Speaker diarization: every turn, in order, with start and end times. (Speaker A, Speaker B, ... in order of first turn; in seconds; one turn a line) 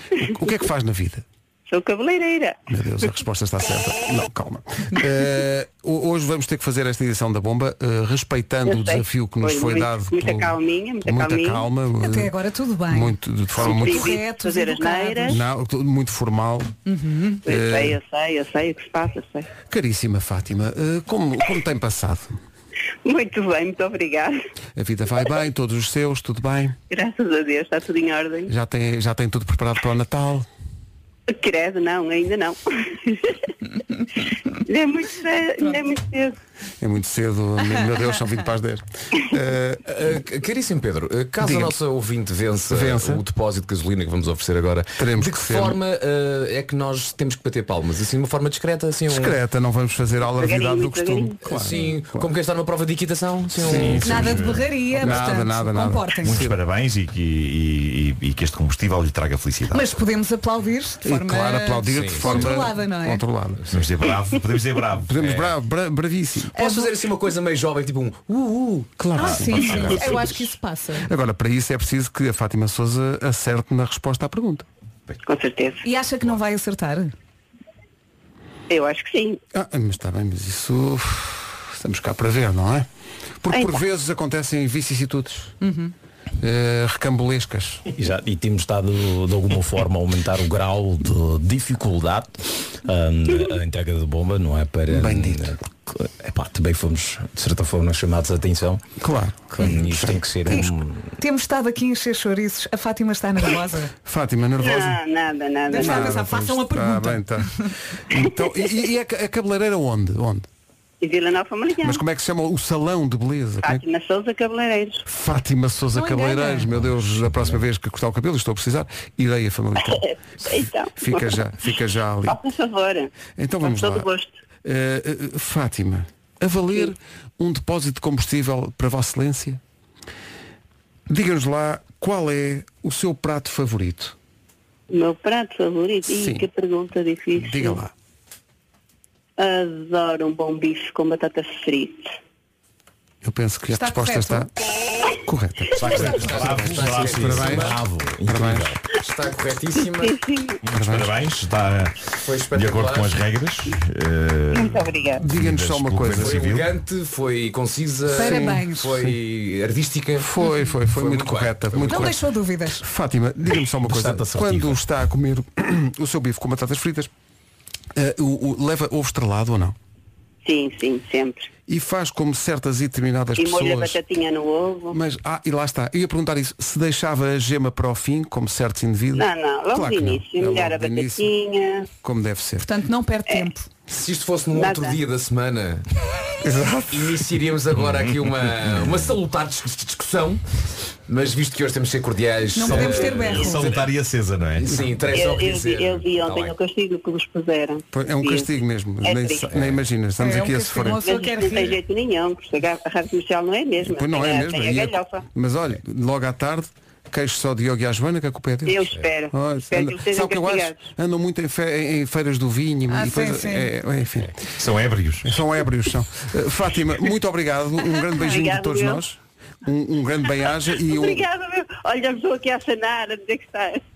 Speaker A: 0.2-1.2
Speaker B: 1.7-2.5
Speaker A: 2.7-12.3
Speaker B: 8.7-11.6
Speaker C: 12.0-15.4
Speaker A: 12.9-14.2
Speaker B: 13.6-15.4
Speaker A: 15.2-16.7
Speaker C: 16.9-17.4
Speaker A: 17.4-18.0
Speaker B: 17.4-19.5
Speaker A: 19.7-22.4
Speaker B: 23.0-24.4
Speaker A: 24.8-26.8
Speaker B: 26.9-28.5
Speaker A: 28.5-30.5
Speaker B: 31.3-33.4
Speaker B: 34.6-36.3
Speaker A: 36.8-39.8
Speaker D: 39.9-49.4
Speaker A: 41.4-41.8
Speaker A: 42.7-43.2
Speaker A: 45.0-45.8
Speaker A: 49.1-52.3
Speaker B: 50.4-51.4
Speaker D: 51.4-54.2
Speaker A: 53.5-56.6
Speaker E: 53.8-55.3
Speaker C: 54.0-56.4
Speaker E: 56.2-59.9
Speaker C: 59.7-63.2
Speaker A: 61.0-63.6
Speaker D: 61.9-62.6
Speaker D: 63.6-63.9
Speaker E: 63.7-65.2
Speaker A: 65.0-66.6
Speaker D: 65.2-65.5
Speaker D: 66.5-68.9
Speaker C: 66.6-66.9
Speaker A: 69.0-74.7
Speaker C: 69.1-71.1
Speaker E: 69.3-70.2
Speaker B: 75.2-75.8
Speaker C: 75.8-77.1
Speaker B: 78.7-79.4
Speaker A: 79.5-82.9
Speaker A: 83.4-85.5
Speaker B: 83.5-83.8
Speaker C: 85.6-85.9
Speaker A: 86.4-87.8
Speaker F: 87.9-98.8
Speaker A: 94.9-95.5
Speaker A: 99.0-100.2
Speaker F: 99.5-101.0
Speaker D: 99.6-100.1
Speaker C: 100.5-103.9
Speaker A: 104.0-105.0
Speaker B: 104.6-106.1
Speaker C: 105.7-107.7
Speaker A: 105.7-107.5
Speaker A: 108.1-110.5
Speaker B: 111.0-112.0
Speaker A: 111.8-113.8
Speaker B: 113.6-115.0
Speaker A: 115.0-122.4
Speaker C: 115.9-116.7
Speaker B: 119.9-121.3
Speaker B: 122.3-123.1
Speaker A: 123.3-124.1
Speaker B: 123.6-124.2
Speaker A: 124.6-129.6
Speaker A: 131.1-134.2
Speaker B: 134.9-137.8
Speaker A: 136.1-136.5
Speaker A: 137.4-137.9
Speaker B: 139.4-142.1
Speaker A: 143.2-144.5
Speaker C: 143.7-144.5
Speaker A: 145.2-148.7
Speaker E: 145.8-147.6
Speaker D: 145.8-147.8
Speaker F: 147.5-148.8
Speaker D: 149.0-150.2
Speaker B: 149.8-150.6
Speaker E: 150.6-156.7
Speaker A: 150.7-151.1
Speaker D: 152.2-153.1
Speaker B: 154.6-155.2
Speaker A: 155.2-156.4
Speaker D: 156.1-160.3
Speaker C: 158.1-158.9
Speaker A: 158.1-159.1
Speaker A: 160.2-162.2
Speaker D: 160.8-162.1
Speaker C: 161.8-162.8
Speaker A: 162.8-167.1
Speaker F: 163.9-164.7
Speaker A: 167.9-169.8
Speaker B: 170.4-171.5
Speaker A: 171.7-174.0
Speaker B: 173.4-175.0
Speaker A: 174.9-181.3
Speaker B: 179.2-181.9
Speaker A: 182.0-182.7
Speaker C: 182.6-183.7
Speaker D: 183.9-185.8
Speaker B: 184.5-184.9
Speaker A: 186.4-187.3
Speaker D: 186.9-190.4
Speaker E: 187.8-188.1
Speaker D: 191.1-193.9
Speaker C: 192.5-193.8
Speaker E: 192.6-194.7
Speaker D: 194.6-196.5
Speaker B: 195.1-198.5
Speaker A: 197.9-201.0
Speaker B: 199.0-199.5
Speaker C: 200.2-201.8
Speaker B: 201.0-205.2
Speaker A: 203.8-214.4
Speaker B: 208.7-210.8
Speaker C: 212.9-213.7
Speaker E: 214.5-215.3
Speaker A: 215.2-221.2
Speaker B: 218.1-219.0
Speaker B: 220.9-223.8